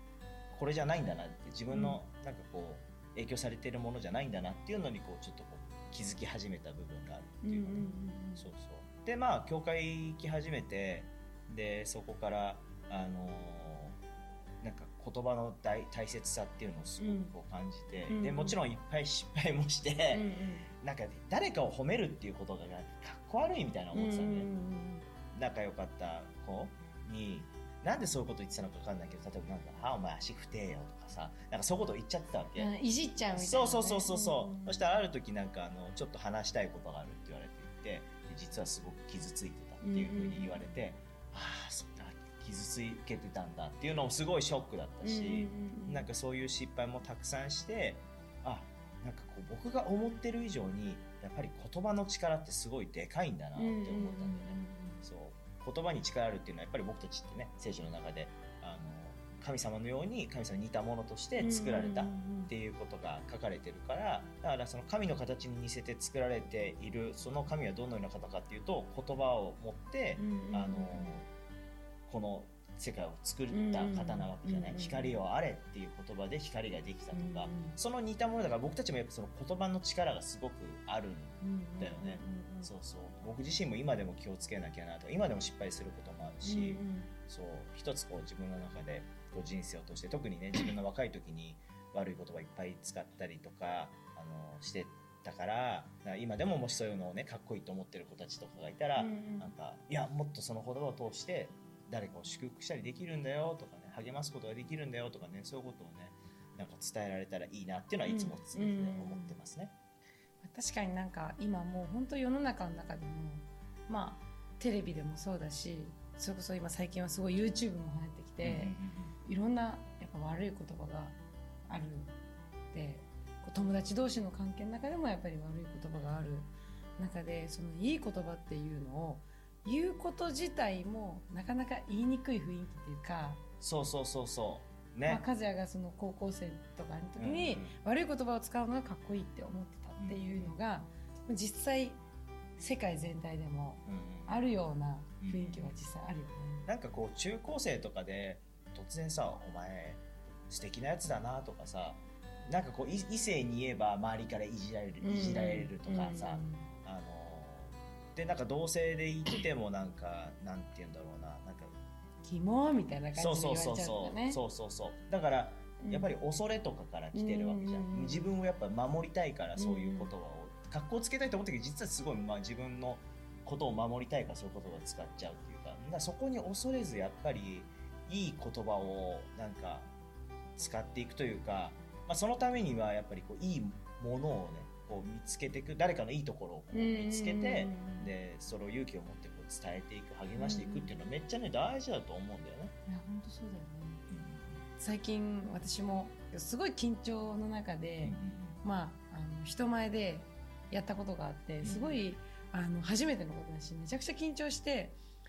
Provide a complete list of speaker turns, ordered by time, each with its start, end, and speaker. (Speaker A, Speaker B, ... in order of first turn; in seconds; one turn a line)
Speaker A: 0.5-14.1
Speaker B: 1.7-2.0
Speaker B: 7.4-8.5
Speaker A: 14.6-20.3
Speaker B: 17.0-17.3
Speaker B: 18.1-18.6
Speaker B: 20.1-20.7
Speaker A: 20.8-24.5
Speaker B: 23.9-25.1
Speaker A: 25.3-32.7
Speaker B: 32.6-34.8
Speaker A: 33.4-71.3
Speaker B: 39.8-40.6
Speaker B: 45.0-46.1
Speaker B: 53.6-55.0
Speaker B: 61.4-62.5
Speaker B: 70.2-71.2
Speaker A: 72.1-109.7
Speaker B: 73.5-75.2
Speaker B: 77.1-77.8
Speaker B: 81.4-82.7
Speaker B: 86.4-87.1
Speaker B: 99.0-99.5
Speaker B: 108.0-109.4
Speaker B: 110.4-121.2
Speaker A: 118.4-119.2
Speaker B: 121.7-122.2
Speaker B: 122.7-133.4
Speaker A: 133.6-135.2
Speaker B: 135.1-142.0
Speaker A: 137.2-137.8
Speaker A: 140.0-140.6
Speaker B: 142.6-146.7
Speaker A: 143.9-144.4
Speaker A: 145.2-145.8
Speaker A: 146.7-161.7
Speaker B: 155.0-156.7
Speaker B: 162.2-164.4
Speaker A: 163.2-179.9
Speaker B: 165.8-166.1
Speaker B: 167.1-168.3
Speaker B: 169.6-170.1
Speaker A: 180.6-192.7
Speaker B: 186.7-188.1
Speaker B: 190.4-190.9
Speaker B: 192.9-194.1
Speaker A: 194.1-194.6
Speaker B: 194.8-205.0
Speaker A: 198.0-198.6
Speaker A: 201.6-202.0